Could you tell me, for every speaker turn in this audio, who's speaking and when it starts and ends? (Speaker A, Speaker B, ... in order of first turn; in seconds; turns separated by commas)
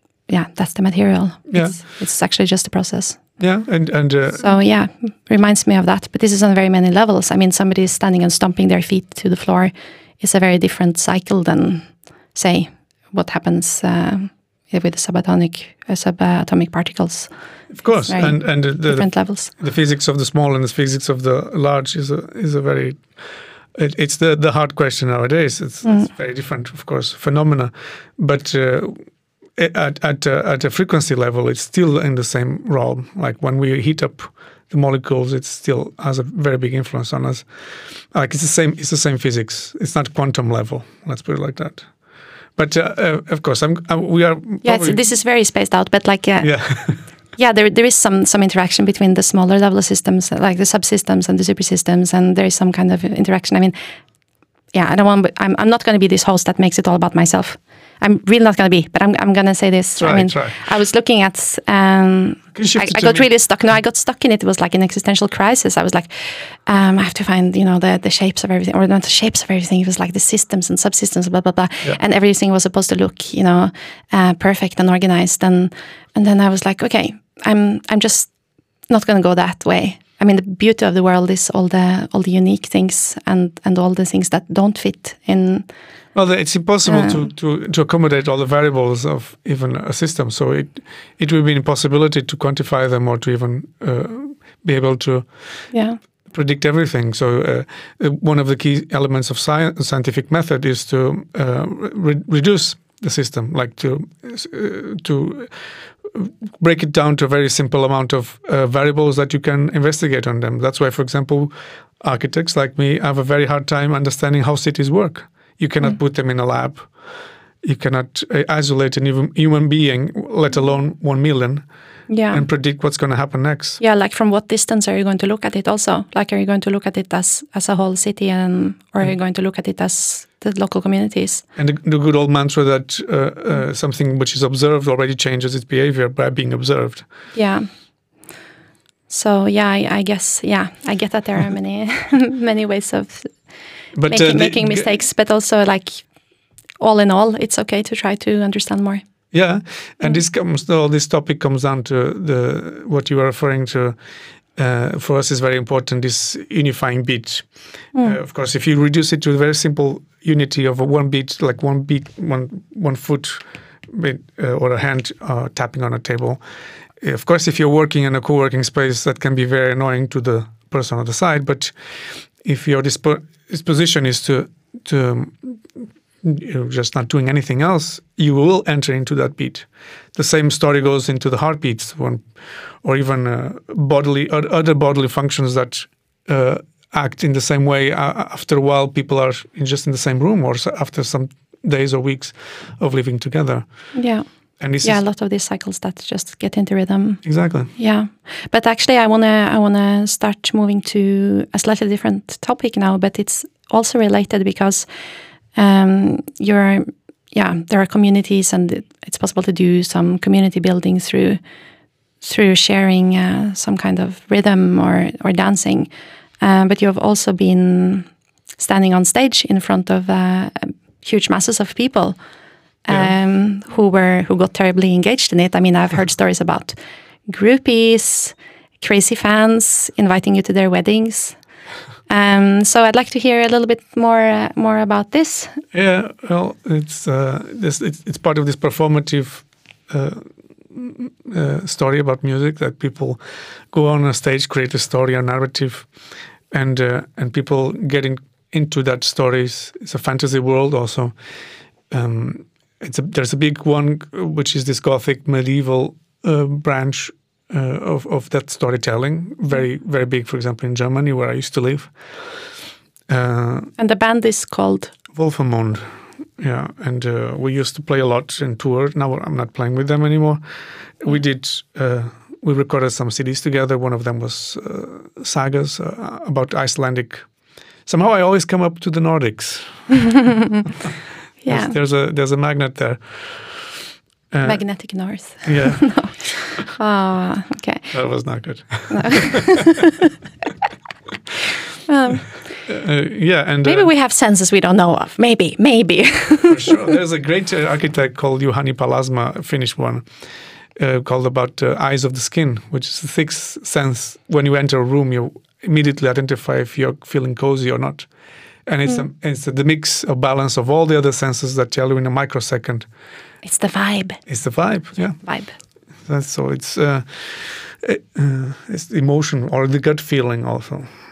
Speaker A: 0.3-3.3, Speaker B: 1.5-1.8, Speaker B: 3.4-4.6, Speaker A: 4.4-17.3, Speaker B: 17.7-41.9, Speaker A: 18.1-19.5, Speaker B: 42.5-45.0, Speaker A: 44.6-46.8, Speaker B: 46.4-47.0, Speaker A: 47.4-53.8, Speaker A: 54.7-78.3, Speaker B: 60.0-60.6, Speaker B: 62.5-63.3, Speaker A: 78.9-85.7, Speaker B: 86.1-95.7, Speaker A: 86.9-87.2, Speaker A: 95.7-96.0, Speaker B: 96.3-116.9, Speaker B: 117.6-121.7, Speaker A: 122.1-122.5, Speaker B: 122.3-123.8, Speaker A: 123.8-131.4, Speaker B: 131.6-137.1, Speaker A: 137.3-137.7, Speaker A: 139.1-143.4, Speaker B: 143.9-144.9, Speaker A: 144.1-146.1, Speaker A: 146.8-149.0, Speaker B: 149.3-154.0, Speaker B: 154.6-166.4, Speaker B: 167.0-193.9, Speaker A: 193.9-194.2, Speaker B: 194.6-195.0, Speaker A: 194.8-204.9, Speaker B: 197.2-197.7, Speaker A: 205.5-211.4, Speaker A: 212.2-222.2, Speaker A: 222.8-231.4, Speaker A: 232.1-235.6, Speaker B: 235.7-245.9, Speaker B: 246.5-251.2, Speaker B: 251.9-262.4, Speaker B: 263.1-263.7, Speaker A: 263.8-264.9, Speaker B: 265.1-270.4, Speaker B: 271.0-277.3, Speaker B: 277.9-280.2, Speaker A: 281.4-281.7, Speaker B: 281.5-286.7, Speaker A: 284.4-287.9, Speaker B: 287.9-289.4, Speaker A: 288.9-290.0, Speaker A: 291.9-292.5, Speaker B: 292.6-293.9, Speaker A: 293.6-296.9, Speaker B: 296.5-300.1, Speaker B: 300.7-308.1, Speaker B: 308.6-312.9, Speaker A: 313.4-314.2, Speaker B: 314.3-315.3, Speaker A: 315.2-315.6, Speaker B: 316.0-320.9